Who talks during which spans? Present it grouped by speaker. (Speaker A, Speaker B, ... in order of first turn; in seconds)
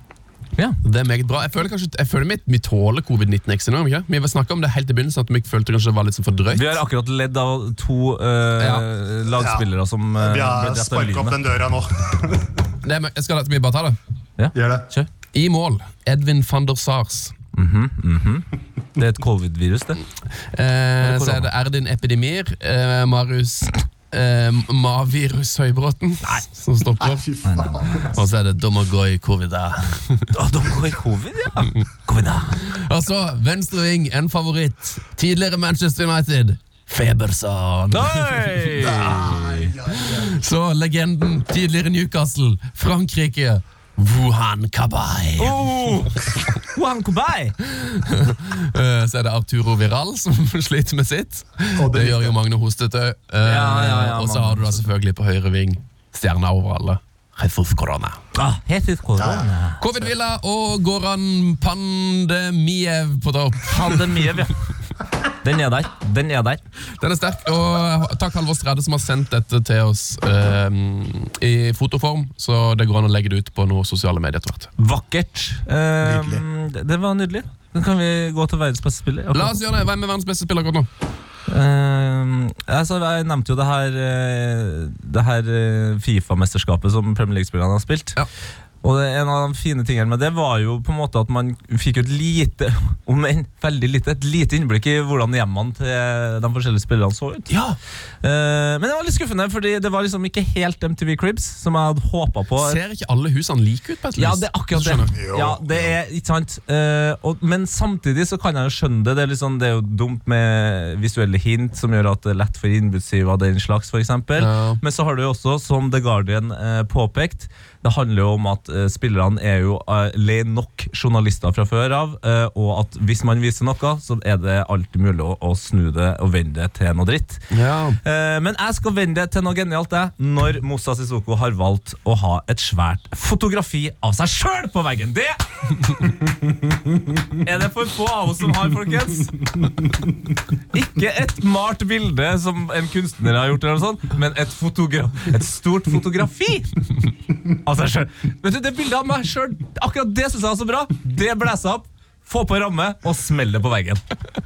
Speaker A: 0.8-6.7, 8.6-8.8, 12.8-13.9, 15.3-17.3, 20.4-27.2, 27.9-30.3, 32.6-45.6, 47.7-58.2, 59.8-64.5, 67.0-74.7, 79.3-80.9, 97.5-97.8, 102.6-105.1, 114.4-114.8, 127.5-128.0
Speaker B: 6.5-11.3, 14.4-15.1, 17.6-20.0, 21.0-21.5, 27.4-27.9, 30.3-32.6, 37.9-39.6, 45.4-47.5, 53.4-54.8, 58.3-59.8, 63.7-64.5, 65.4-66.6, 74.8-79.5, 81.5-88.2, 88.8-97.5, 98.2-102.8, 104.2-127.5, 128.0-136.1, 137.3-139.8, 140.7-146.9, 147.5-154.0
Speaker C: 9.4-12.6, 14.5-14.8, 27.0-28.1, 39.0-40.3, 51.8-52.4, 59.1-59.5, 76.0-76.4, 105.0-105.9